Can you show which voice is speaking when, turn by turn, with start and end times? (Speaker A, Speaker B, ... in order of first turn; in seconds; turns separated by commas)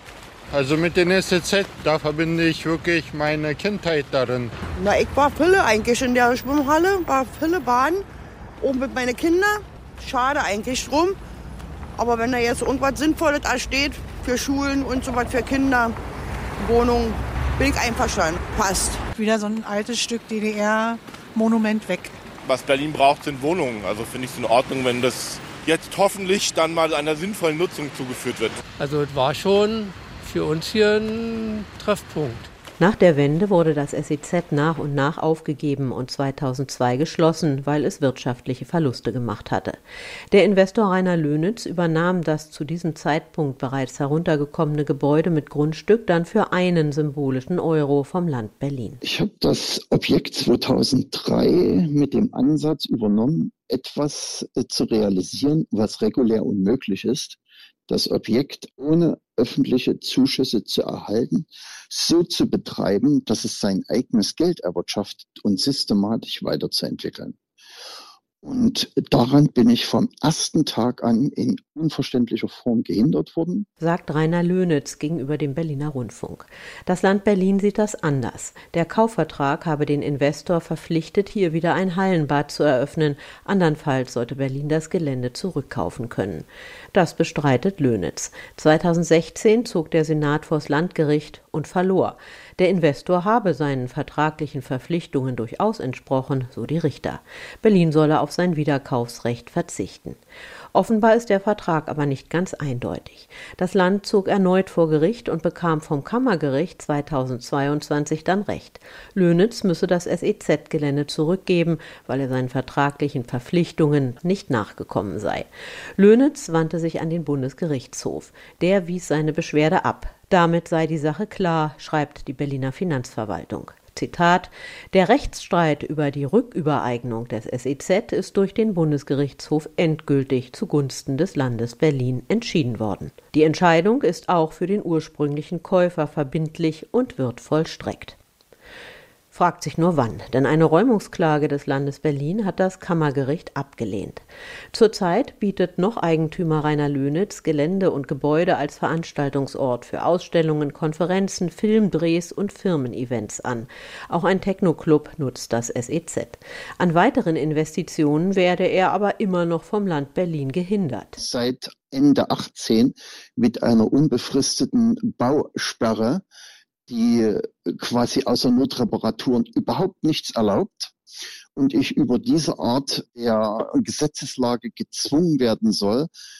Speaker A: 0.5-4.5, Speaker B: 4.8-8.0, Speaker B: 8.7-11.1, Speaker B: 12.0-15.9, Speaker B: 16.7-18.5, Speaker C: 18.7-22.1, Speaker D: 22.4-28.6, Speaker E: 28.8-32.5, Speaker F: 32.8-39.8, Speaker F: 40.3-49.0, Speaker G: 49.0-67.4, Speaker G: 68.4-73.7, Speaker F: 73.8-100.2, Speaker F: 100.7-138.2, Speaker F: 139.3-161.2, Speaker G: 161.2-166.2, Speaker G: 166.9-170.9, Speaker G: 171.6-176.1